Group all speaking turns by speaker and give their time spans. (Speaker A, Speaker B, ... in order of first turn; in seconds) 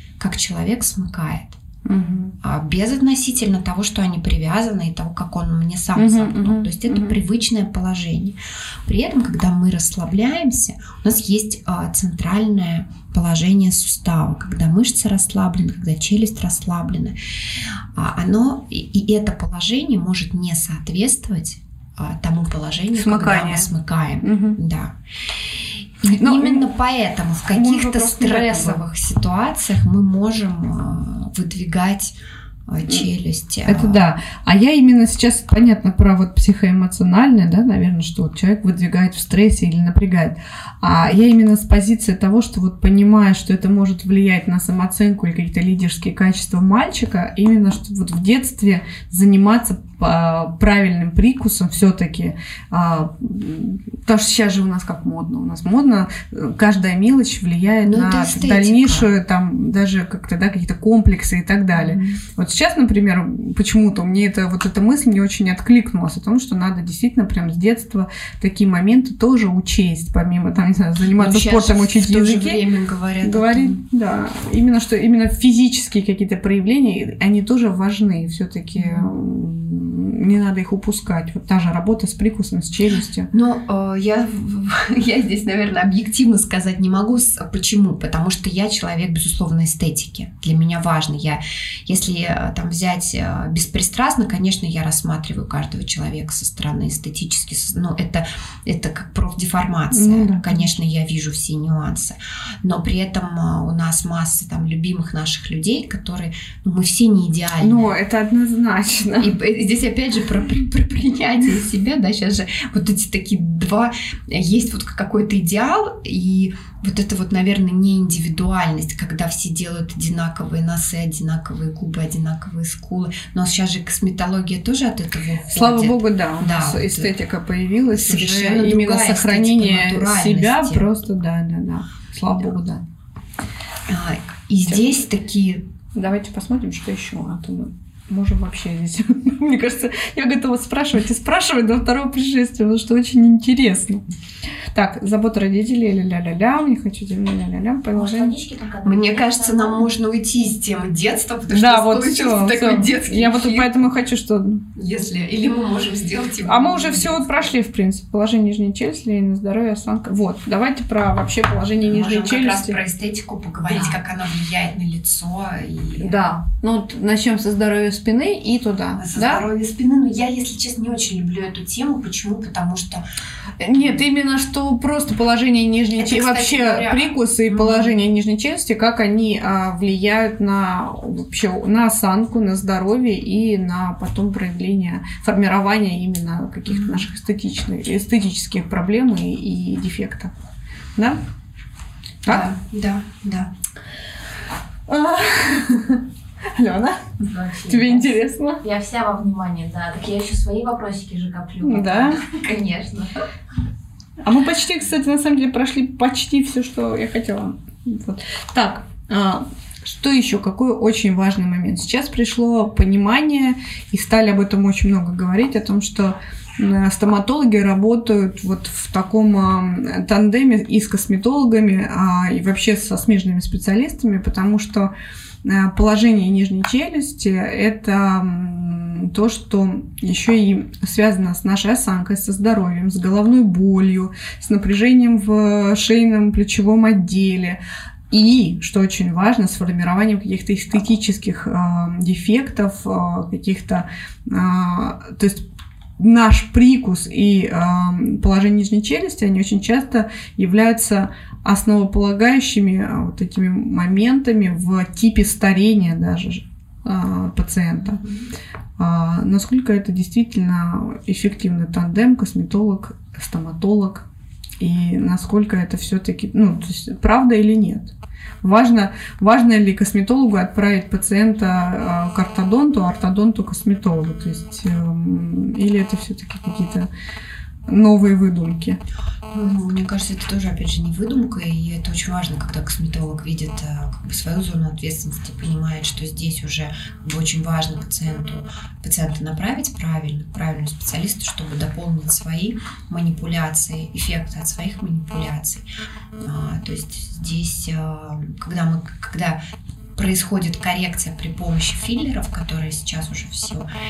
Speaker A: 0.2-1.6, 2.4-17.1, 17.9-32.1, 32.7-34.0, 57.8-59.1, 61.8-62.2, 71.0-73.8, 78.8-79.1, 83.3-107.9, 109.2-127.1, 127.9-130.9, 133.9-135.7, 148.8-153.8, 154.7-157.5, 161.8-166.3, 168.9-173.0, 173.6-174.0, 175.9-178.0, 186.7-187.0, 192.2-193.5, 257.9-258.3, 279.3-295.6, 296.2-299.4, 299.9-303.6
Speaker B: 1.8-2.3, 5.9-7.2, 22.9-23.7, 24.2-24.6, 26.0-26.6, 27.5-28.8, 33.6-72.7, 73.2-83.3, 99.9-100.7, 107.6-109.3, 125.5-132.8, 135.9-144.0, 144.7-148.3, 151.5-154.6, 156.4-162.8, 163.7-163.9, 166.0-169.4, 173.6-190.3, 190.9-191.2, 194.9-197.0, 197.7-198.6, 201.6-202.2, 204.2-224.9, 225.4-245.4, 246.0-258.0, 258.8-264.1, 264.6-276.9, 277.7-278.8
Speaker C: 147.9-149.9, 197.2-203.2